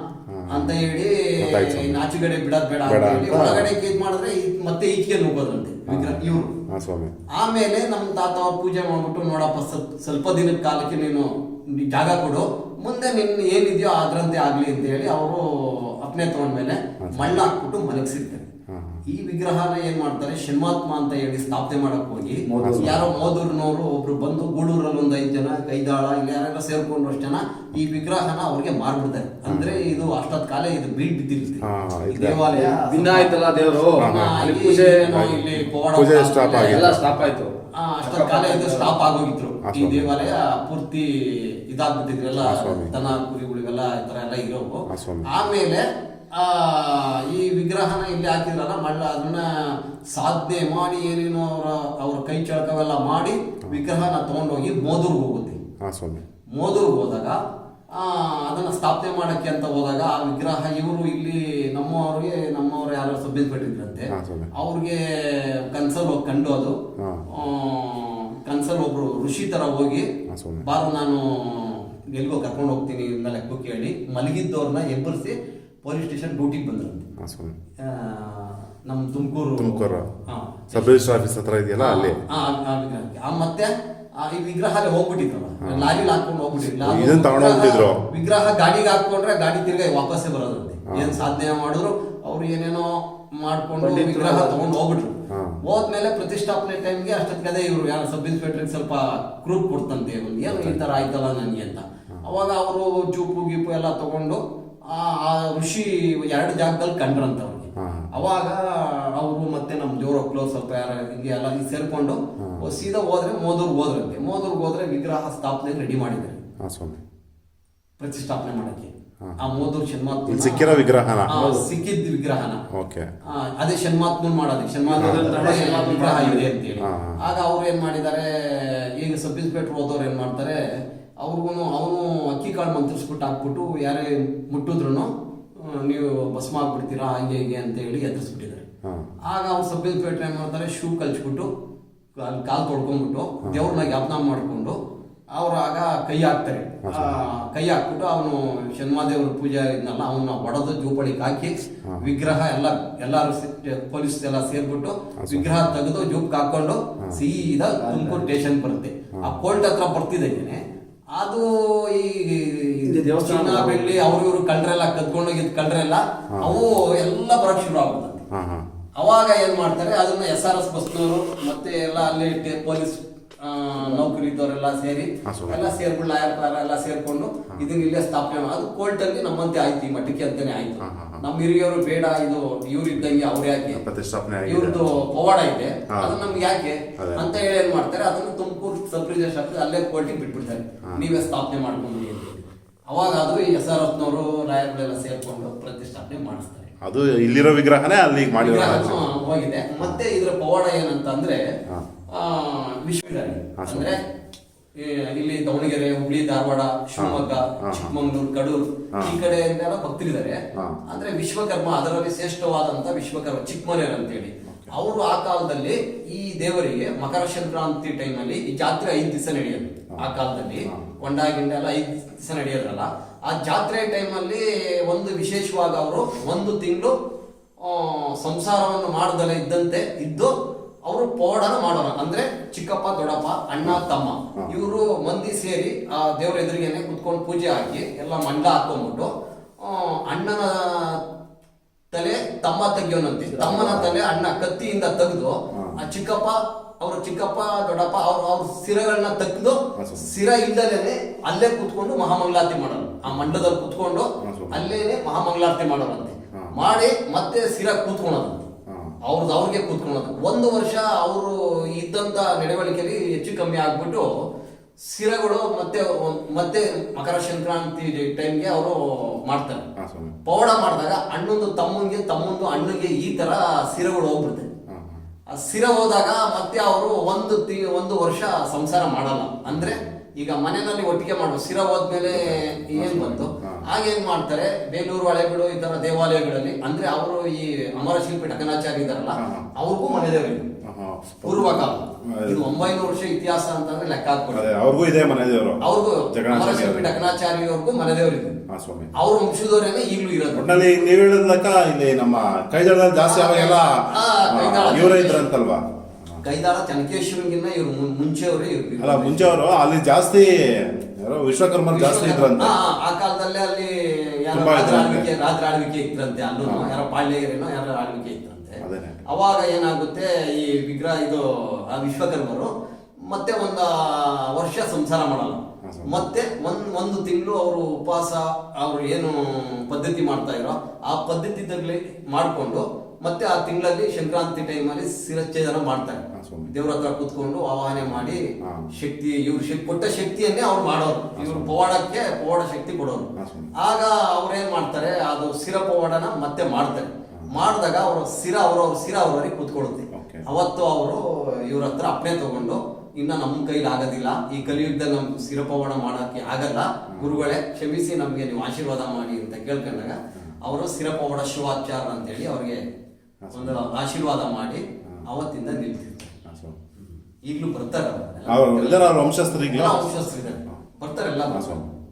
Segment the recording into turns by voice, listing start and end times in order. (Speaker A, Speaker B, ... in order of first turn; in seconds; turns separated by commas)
Speaker A: 0.3-0.8, Speaker B: 0.5-6.5, Speaker A: 1.4-2.0, Speaker A: 2.8-3.7, Speaker A: 5.9-7.1, Speaker B: 7.3-18.5, Speaker A: 17.0-17.5, Speaker A: 18.7-19.0, Speaker B: 19.1-33.4, Speaker C: 22.4-23.0, Speaker A: 22.5-23.1, Speaker A: 29.4-29.8, Speaker A: 31.6-32.6, Speaker C: 32.5-35.0, Speaker B: 34.0-37.0, Speaker A: 34.0-37.1, Speaker C: 36.5-37.5, Speaker B: 37.7-55.6, Speaker C: 38.0-38.9, Speaker A: 39.6-40.3, Speaker A: 42.4-43.0, Speaker A: 44.9-45.3, Speaker A: 53.7-54.0, Speaker A: 55.8-56.2, Speaker B: 56.5-57.4, Speaker B: 57.9-66.8, Speaker A: 64.1-64.5, Speaker A: 67.0-67.2, Speaker B: 67.3-70.1, Speaker A: 70.3-70.7, Speaker B: 70.6-77.0, Speaker A: 77.2-77.5, Speaker B: 77.8-81.0, Speaker A: 79.6-80.1, Speaker A: 80.7-82.2, Speaker B: 81.8-116.4, Speaker A: 85.6-86.0, Speaker A: 86.7-88.0, Speaker A: 90.9-91.2, Speaker C: 93.8-94.6, Speaker A: 95.3-95.6, Speaker A: 100.5-100.8, Speaker A: 107.8-108.1, Speaker A: 112.4-112.8, Speaker A: 116.6-117.0, Speaker B: 118.0-122.6, Speaker A: 120.3-121.4, Speaker C: 121.3-121.6, Speaker A: 122.7-123.1, Speaker B: 123.3-130.7, Speaker C: 124.9-126.5, Speaker A: 125.0-125.6, Speaker A: 126.8-127.2, Speaker B: 131.2-138.6, Speaker A: 138.8-139.1, Speaker B: 139.2-141.5, Speaker B: 142.2-144.8, Speaker A: 143.4-143.7, Speaker B: 145.3-160.6, Speaker A: 146.8-147.2, Speaker A: 155.2-155.6, Speaker C: 157.8-158.2, Speaker B: 161.1-168.2, Speaker C: 162.8-163.9, Speaker A: 166.3-166.8, Speaker A: 168.3-168.7, Speaker B: 169.0-183.8, Speaker A: 175.2-175.7, Speaker A: 180.8-181.2, Speaker A: 183.7-184.9, Speaker B: 184.4-196.7, Speaker A: 185.9-186.3, Speaker A: 187.0-187.3, Speaker A: 196.8-199.1, Speaker B: 198.4-201.4, Speaker A: 199.8-200.0, Speaker B: 202.1-204.0, Speaker A: 203.6-203.9, Speaker B: 204.7-226.9, Speaker A: 207.0-207.9, Speaker A: 210.5-210.8, Speaker A: 214.4-214.8, Speaker B: 227.6-230.3, Speaker B: 230.8-241.0, Speaker B: 241.9-258.5, Speaker A: 243.4-243.9, Speaker A: 245.5-245.8, Speaker A: 249.7-250.1, Speaker A: 253.0-253.3, Speaker A: 254.2-254.6, Speaker A: 258.7-259.0, Speaker B: 259.0-264.1, Speaker B: 264.8-269.6, Speaker A: 269.8-270.2, Speaker B: 270.2-274.5, Speaker A: 274.7-275.0, Speaker B: 275.3-290.5, Speaker A: 279.5-279.8, Speaker A: 282.1-283.6, Speaker A: 289.2-289.5, Speaker A: 290.6-292.5, Speaker B: 291.2-294.5, Speaker A: 294.3-296.9, Speaker B: 295.6-298.4, Speaker A: 298.5-298.9, Speaker B: 298.9-300.6, Speaker A: 300.3-306.2, Speaker B: 303.1-305.3, Speaker B: 306.2-309.4, Speaker A: 308.8-312.6, Speaker B: 311.7-322.5, Speaker A: 314.3-315.1, Speaker A: 316.4-316.8, Speaker A: 318.6-319.0, Speaker B: 323.0-362.6, Speaker A: 325.6-326.0, Speaker A: 336.1-336.5, Speaker A: 337.9-338.7, Speaker A: 341.1-341.5, Speaker A: 343.1-343.5, Speaker A: 347.1-347.4, Speaker A: 349.9-350.2, Speaker A: 356.9-357.2, Speaker A: 363.2-363.6, Speaker B: 363.3-366.1, Speaker A: 366.2-366.8, Speaker B: 367.2-369.0, Speaker A: 368.3-369.9, Speaker B: 369.5-371.6, Speaker A: 371.3-371.7